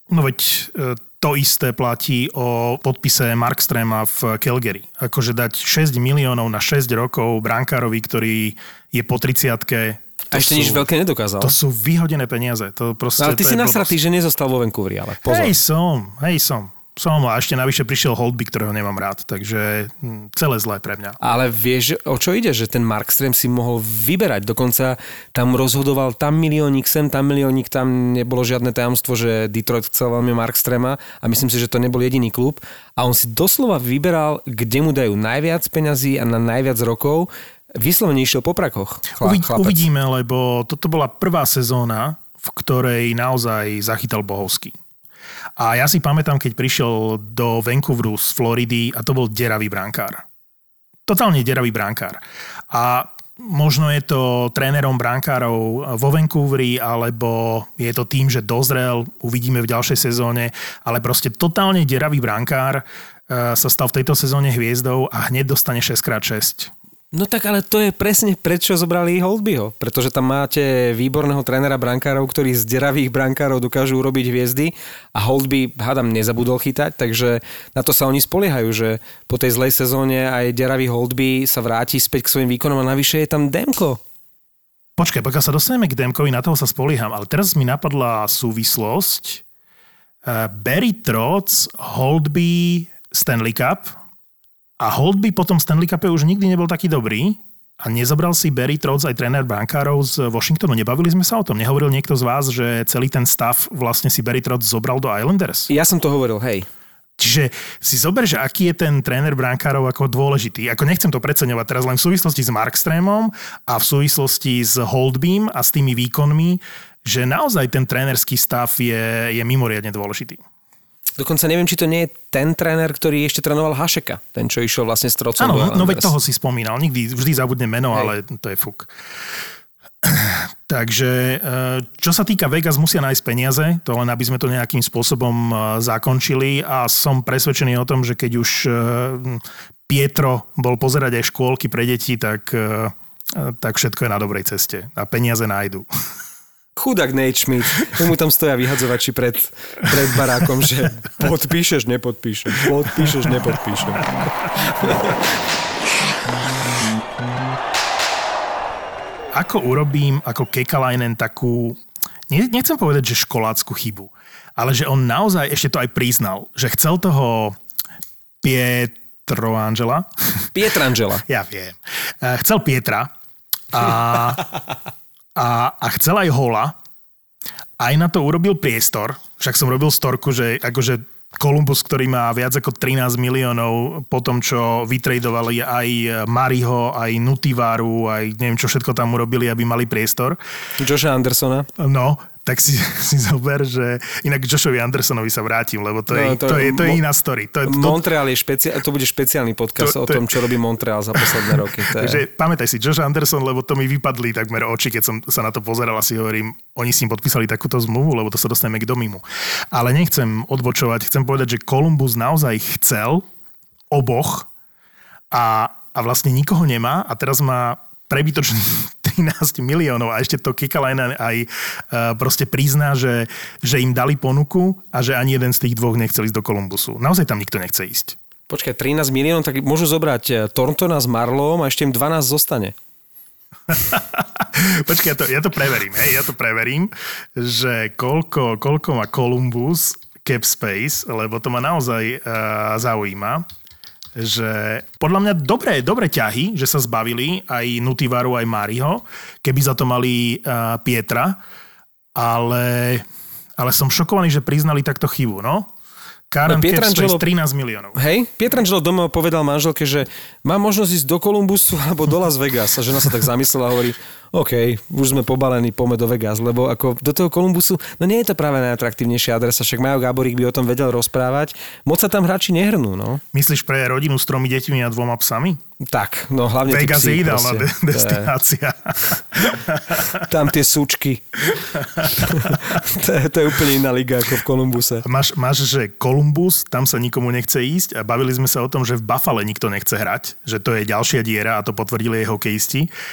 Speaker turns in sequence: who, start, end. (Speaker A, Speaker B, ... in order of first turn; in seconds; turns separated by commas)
Speaker A: 0.1-10.8, Speaker B: 10.3-11.5, Speaker A: 11.4-13.9, Speaker B: 13.2-15.5, Speaker A: 15.2-21.2, Speaker B: 21.2-39.8, Speaker A: 39.2-44.7, Speaker A: 45.6-50.2, Speaker A: 51.1-66.7, Speaker B: 67.1-84.0, Speaker A: 85.0-89.4, Speaker A: 90.2-93.9, Speaker A: 94.8-105.7, Speaker B: 105.7-106.7, Speaker A: 107.2-120.4, Speaker B: 121.2-126.1, Speaker A: 125.4-128.9, Speaker A: 130.0-145.9, Speaker B: 146.8-154.1, Speaker B: 154.8-155.1, Speaker A: 159.3-167.6, Speaker A: 168.4-170.1, Speaker B: 170.5-171.2, Speaker A: 171.3-173.1, Speaker A: 173.7-174.4, Speaker A: 175.3-176.8, Speaker A: 177.8-190.4, Speaker B: 190.8-191.7, Speaker A: 191.8-198.0, Speaker B: 196.1-197.0, Speaker B: 197.6-202.2, Speaker A: 199.8-200.4, Speaker A: 201.2-213.2, Speaker A: 213.9-214.5, Speaker A: 215.3-228.2, Speaker B: 228.5-232.7, Speaker A: 233.7-243.4, Speaker A: 244.2-251.4, Speaker A: 252.1-253.1, Speaker A: 253.6-255.7, Speaker A: 256.3-258.0, Speaker B: 256.5-257.2, Speaker B: 257.9-273.2, Speaker A: 273.3-275.6, Speaker B: 275.8-278.3, Speaker A: 276.7-280.2, Speaker B: 280.1-281.5, Speaker A: 282.0-282.6, Speaker B: 282.1-285.1, Speaker A: 285.0-292.9